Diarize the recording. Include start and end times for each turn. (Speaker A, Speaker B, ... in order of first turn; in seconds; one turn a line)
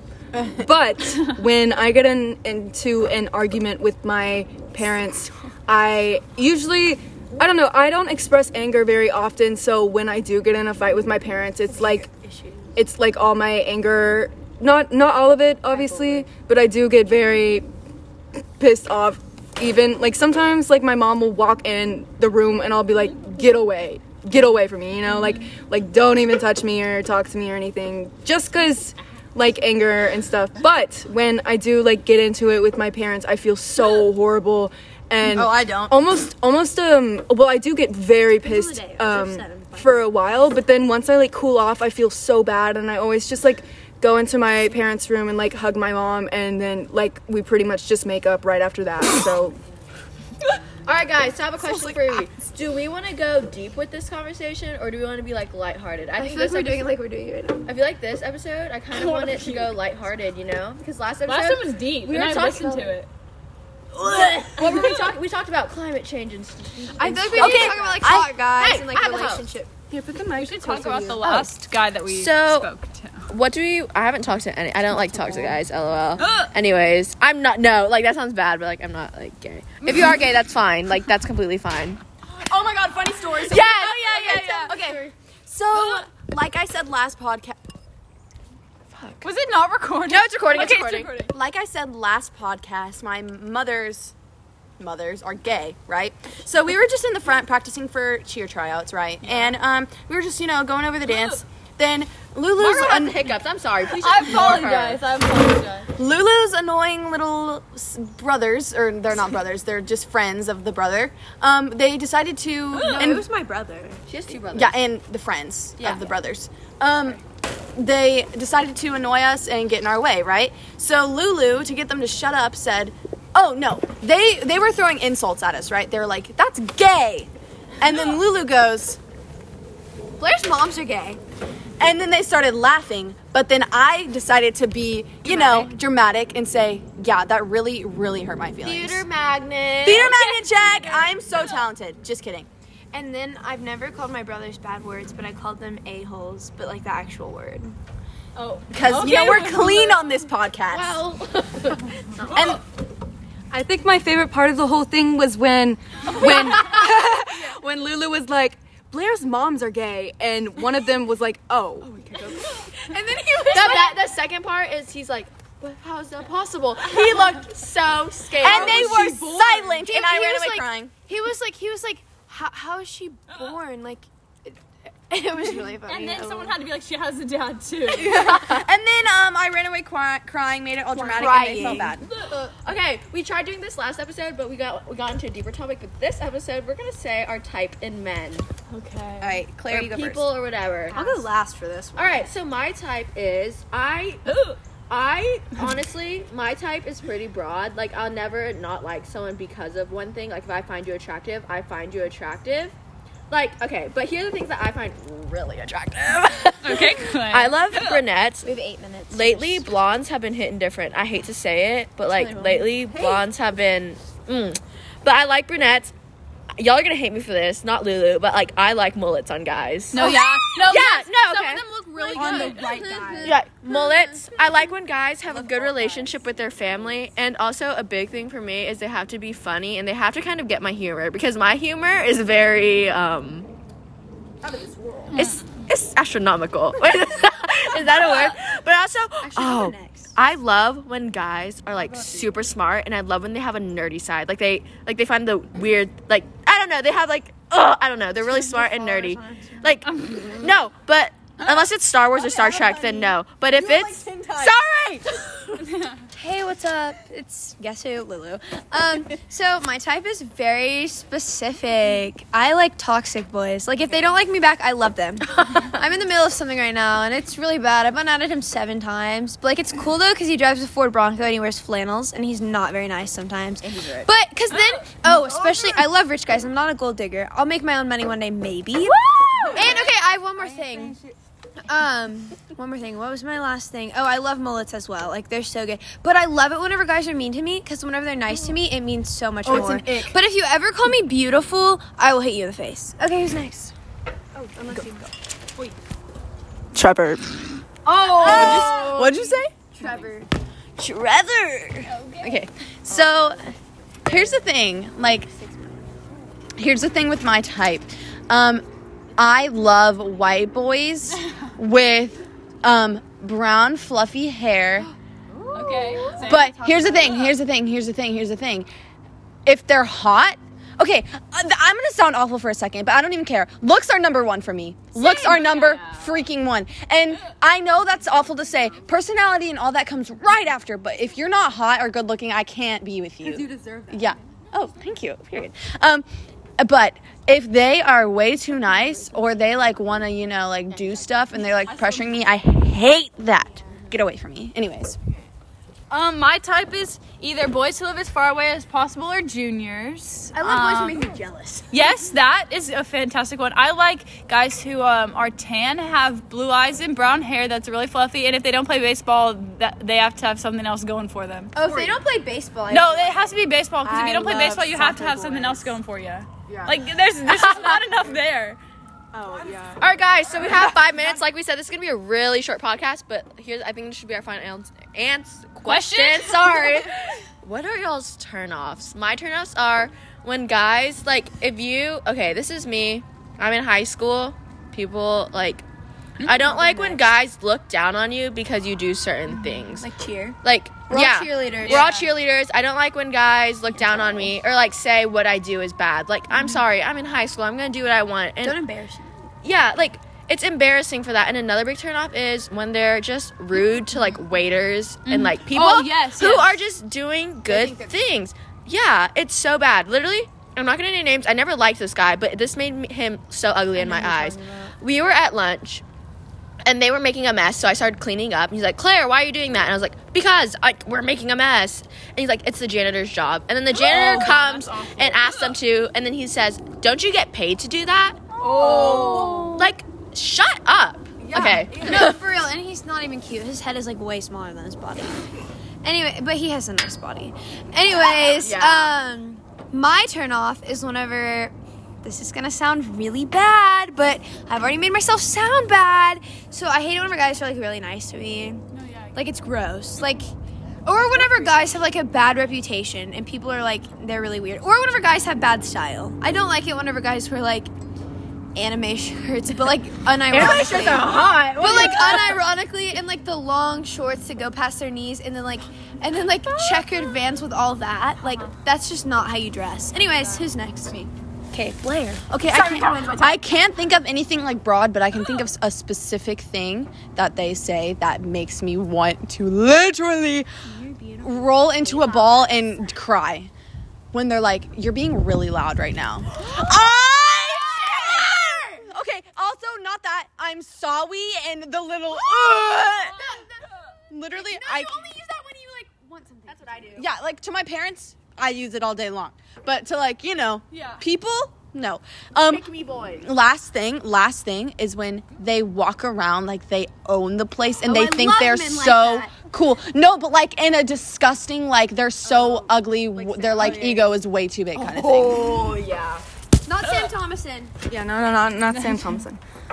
Speaker A: 0.3-0.6
Speaker B: 0.5-12.1
Speaker C: 11.7-12.7
Speaker B: 12.8-17.6
Speaker B: 18.6-49.6
Speaker D: 25.1-25.4
Speaker A: 35.2-36.0
Speaker C: 38.3-40.1
Speaker E: 50.8-56.9
Speaker A: 51.7-51.9
Speaker C: 56.2-57.7
Speaker E: 57.6-62.9
Speaker D: 58.9-59.8
Speaker D: 61.2-63.1
Speaker C: 64.0-64.9
Speaker D: 64.1-65.0
Speaker E: 64.4-69.5
Speaker C: 67.0-69.7
Speaker A: 67.4-68.1
Speaker B: 69.9-71.2
Speaker D: 70.3-73.3
Speaker E: 71.2-71.5
Speaker E: 72.0-72.7
Speaker E: 73.3-82.0
Speaker D: 76.2-76.5
Speaker D: 79.8-80.2
Speaker A: 82.3-87.6
Speaker E: 83.4-85.0
Speaker D: 83.5-85.0
Speaker D: 85.7-86.1
Speaker E: 88.9-89.2
Speaker D: 89.2-91.3
Speaker E: 90.1-91.1
Speaker A: 90.5-94.1
Speaker A: 94.8-103.2
Speaker D: 101.0-101.4
Speaker E: 102.6-105.0
Speaker D: 103.8-105.9
Speaker A: 106.0-113.2
Speaker D: 112.7-113.2
Speaker C: 112.7-114.0
Speaker E: 114.1-114.8
Speaker A: 114.5-117.2
Speaker C: 115.8-116.1
Speaker A: 117.7-127.3
Speaker A: 127.8-129.0
Speaker C: 130.2-131.2
Speaker A: 131.8-139.0
Speaker C: 135.2-135.7
Speaker E: 138.6-140.1
Speaker A: 139.8-142.5
Speaker D: 140.1-141.4
Speaker C: 142.9-147.7
Speaker D: 148.4-149.9
Speaker E: 148.4-149.6
Speaker A: 148.7-151.0
Speaker E: 150.7-152.6
Speaker A: 152.3-152.6
Speaker B: 153.5-161.9
Speaker A: 161.9-162.3
Speaker C: 162.3-163.9
Speaker E: 163.5-168.9
Speaker A: 168.4-170.9
Speaker C: 168.4-174.6
Speaker E: 170.2-170.6
Speaker C: 175.1-176.6
Speaker D: 175.8-178.3
Speaker A: 177.9-182.1
Speaker C: 180.9-182.0
Speaker D: 181.7-182.5
Speaker E: 182.4-188.5
Speaker D: 188.7-189.4
Speaker A: 189.2-190.3
Speaker E: 189.7-191.0
Speaker C: 190.9-192.3
Speaker E: 191.9-194.2
Speaker D: 194.2-194.6
Speaker E: 194.9-202.7
Speaker E: 203.3-208.5
Speaker D: 206.6-208.0
Speaker C: 208.4-209.7
Speaker E: 209.1-215.9
Speaker C: 212.0-213.2
Speaker E: 216.6-221.6
Speaker D: 219.9-222.9
Speaker A: 222.0-223.4
Speaker C: 222.1-224.6
Speaker E: 223.2-233.5
Speaker C: 225.3-226.3
Speaker A: 234.4-235.1
Speaker D: 235.1-235.4
Speaker E: 235.1-255.4
Speaker C: 239.2-240.1
Speaker C: 248.2-249.7
Speaker D: 249.8-250.5
Speaker A: 252.2-254.6
Speaker D: 255.6-256.0
Speaker C: 256.1-280.9
Speaker A: 273.6-274.1
Speaker D: 274.5-274.8
Speaker B: 275.0-275.8
Speaker B: 279.3-281.2
Speaker C: 281.7-293.7
Speaker A: 289.4-290.2
Speaker B: 294.4-294.9
Speaker C: 294.6-295.0
Speaker B: 296.7-297.4
Speaker C: 297.8-300.3
Speaker A: 298.2-299.6
Speaker D: 298.2-299.0
Speaker A: 300.8-303.5
Speaker D: 301.8-303.0
Speaker A: 304.0-305.3
Speaker C: 305.3-305.8
Speaker A: 306.6-308.6
Speaker A: 309.1-314.9
Speaker C: 315.4-316.9
Speaker D: 315.5-317.4
Speaker A: 316.2-318.7
Speaker A: 319.4-336.1
Speaker D: 324.9-326.2
Speaker B: 333.2-334.2
Speaker A: 336.6-345.0
Speaker E: 340.7-341.2
Speaker D: 341.6-342.0
Speaker D: 345.9-351.0
Speaker C: 350.3-352.0
Speaker D: 351.7-361.5
Speaker C: 361.5-363.3
Speaker A: 361.6-362.0
Speaker D: 362.7-368.6
Speaker C: 363.9-365.7
Speaker A: 364.3-364.7
Speaker A: 366.5-366.8
Speaker E: 367.2-368.0
Speaker A: 369.1-369.8
Speaker E: 369.8-385.6
Speaker A: 370.4-371.2
Speaker D: 375.6-376.8
Speaker E: 386.2-389.9
Speaker C: 386.4-387.1
Speaker C: 389.8-390.4
Speaker E: 390.4-398.6
Speaker C: 390.9-392.1
Speaker D: 391.6-392.0
Speaker C: 393.9-394.2
Speaker C: 398.4-399.1
Speaker E: 399.4-415.8
Speaker D: 405.0-406.6
Speaker A: 407.4-408.0
Speaker C: 413.8-414.7
Speaker E: 416.6-428.2
Speaker D: 423.7-425.5
Speaker A: 423.9-424.2
Speaker D: 428.4-429.5
Speaker A: 428.4-429.5
Speaker C: 429.0-429.6
Speaker E: 429.6-432.2
Speaker A: 431.2-432.1
Speaker C: 431.8-435.3
Speaker C: 435.8-448.6
Speaker E: 438.4-438.9
Speaker D: 448.7-449.2
Speaker C: 449.1-450.3
Speaker C: 450.9-457.7
Speaker C: 458.5-473.4
Speaker E: 460.3-462.4
Speaker A: 460.3-460.7
Speaker A: 461.9-462.3
Speaker A: 472.3-480.5
Speaker C: 480.6-482.8
Speaker A: 481.2-483.5
Speaker A: 484.1-493.2
Speaker C: 486.4-488.3
Speaker A: 494.1-495.0
Speaker C: 494.3-497.0
Speaker E: 496.5-496.9
Speaker A: 496.9-502.7
Speaker D: 500.7-501.0
Speaker E: 502.4-503.3
Speaker A: 503.2-515.5
Speaker C: 507.8-509.4
Speaker C: 513.2-514.0
Speaker D: 514.7-515.2
Speaker C: 515.2-515.9
Speaker E: 515.7-516.2
Speaker C: 516.6-517.7
Speaker D: 516.8-517.1
Speaker B: 517.8-519.4
Speaker D: 518.6-519.2